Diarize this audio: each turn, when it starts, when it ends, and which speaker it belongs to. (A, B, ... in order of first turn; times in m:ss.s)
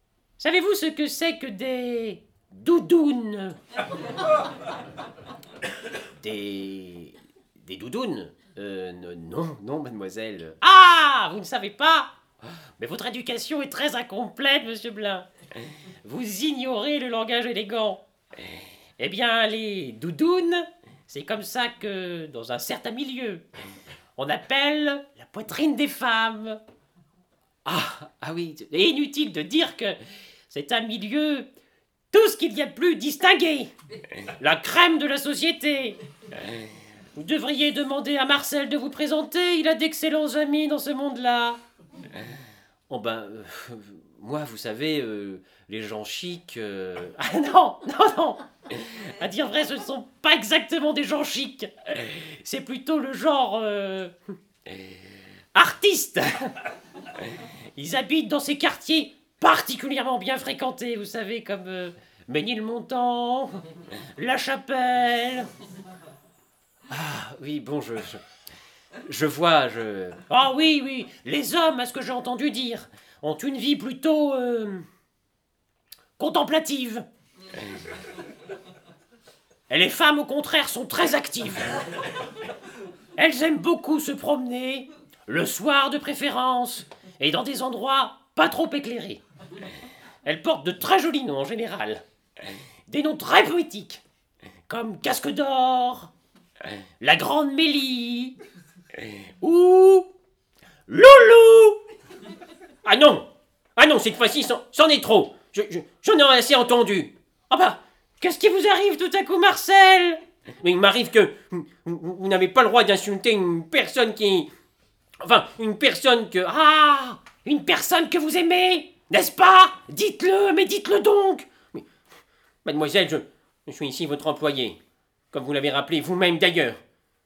0:00.4-0:03.6 A
0:06.2-0:12.1 A
0:12.8-0:23.4 A
0:24.2-0:26.6 A
0:27.6-0:30.0 A
0:30.5-0:31.5 A
0:32.1-0:36.6 A
0:37.2-0:41.6 A
0:42.9-0:54.2 A
0:54.7-0:55.0 A
0:55.5-1:05.5 A
1:06.9-1:08.2 A
1:09.0-1:14.8 A
1:16.2-1:17.0 A
1:19.7-1:21.8 A
1:23.2-1:29.2 A
1:30.2-1:34.0 A
1:34.7-1:36.1 A
1:37.0-1:38.4 A
1:39.0-1:40.1 A
1:40.9-1:41.8 A
1:42.8-1:54.5 A
1:55.2-2:01.9 A
2:02.6-2:04.8 A
2:05.3-2:06.8 A